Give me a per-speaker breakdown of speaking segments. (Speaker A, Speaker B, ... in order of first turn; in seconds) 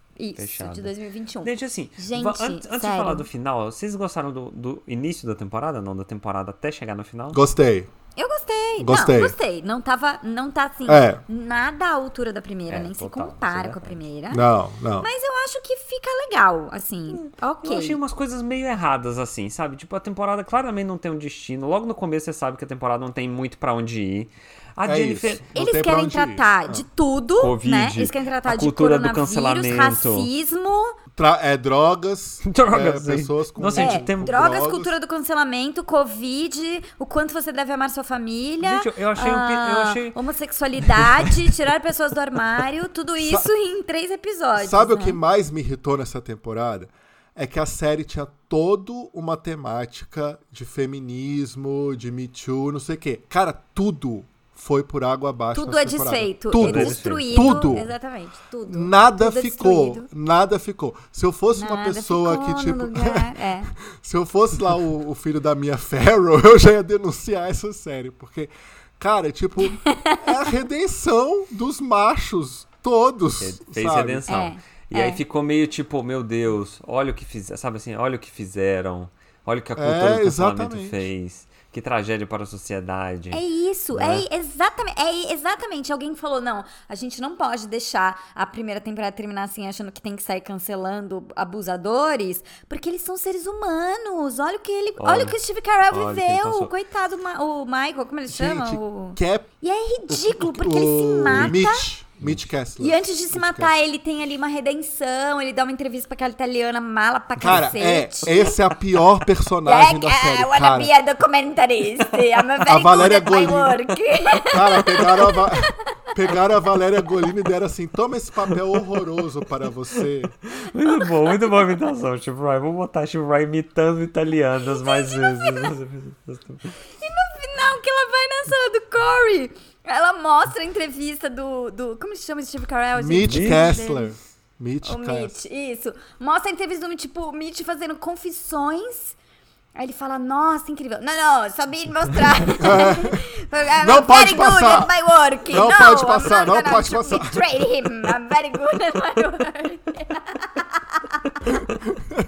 Speaker A: 0.2-3.3, 8.2-14.4, 15.0-18.0, 25.5-30.9, 33.7-45.2, 55.5-60.1, 61.5-63.7, 69.7-70.5, 74.3-75.2, 83.3-101.9, 102.8-108.8, 109.6-115.7, 120.8-121.5, 124.7-125.7, 127.0-134.1, 134.8-139.2, 139.8-151.3
Speaker B: 0.4-7.4, 12.7-14.0, 17.1-25.5, 27.4-30.3, 32.4-34.4, 38.6-40.1, 40.8-41.5, 56.6-57.6, 73.4-83.4, 83.9-84.2, 95.0-95.4, 95.9-96.7, 101.2-101.5, 118.5-119.0, 119.9-126.8, 133.2-133.8
Speaker C: 7.3-7.9, 8.8-9.3, 10.9-11.2, 14.3-15.1, 24.8-26.8, 31.1-34.9, 43.2-43.5, 44.6-57.9, 58.6-74.3, 79.8-81.0, 98.3-99.5, 100.1-103.7, 107.4-110.9, 112.6-113.8, 114.5-120.3, 132.9-135.3, 142.6-143.3, 143.8-144.9, 145.5-147.4